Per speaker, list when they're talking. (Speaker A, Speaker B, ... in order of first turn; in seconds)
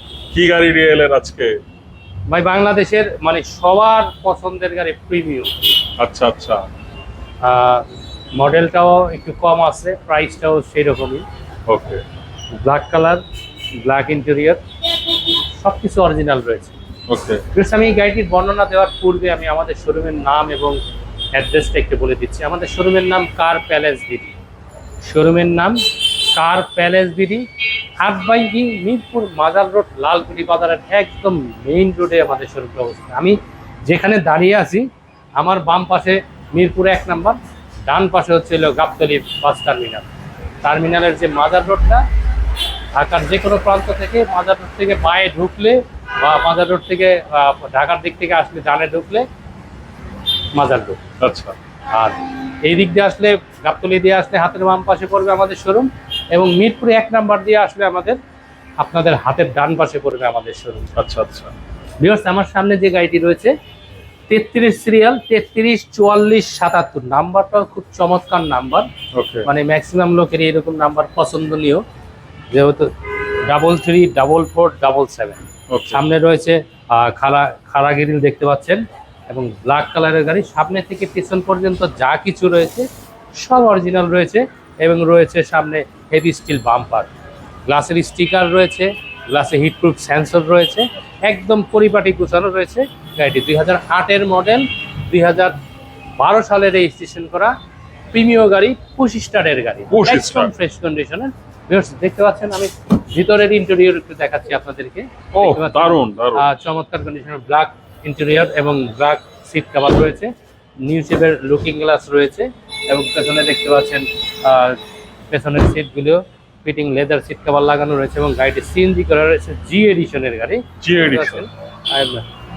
Speaker A: 0.3-1.6, 6.0-6.6, 11.7-12.0, 17.1-17.4, 51.2-51.5, 61.0-61.5, 69.1-69.5, 75.7-76.0, 99.9-100.5, 105.3-106.5, 120.8-121.5
Speaker B: 2.3-5.6, 7.4-7.8, 8.4-11.2, 12.5-13.2, 13.8-14.6, 15.1-16.7, 17.5-20.8, 21.3-24.4, 25.0-27.5, 28.0-37.4, 37.9-40.0, 40.6-42.0, 42.9-49.2, 50.5-51.0, 51.9-58.2, 58.8-60.9, 62.0-63.5, 64.3-68.9, 69.5-71.8, 72.5-72.9, 73.5-87.1, 87.7-95.5, 96.2-97.5, 98.1-122.2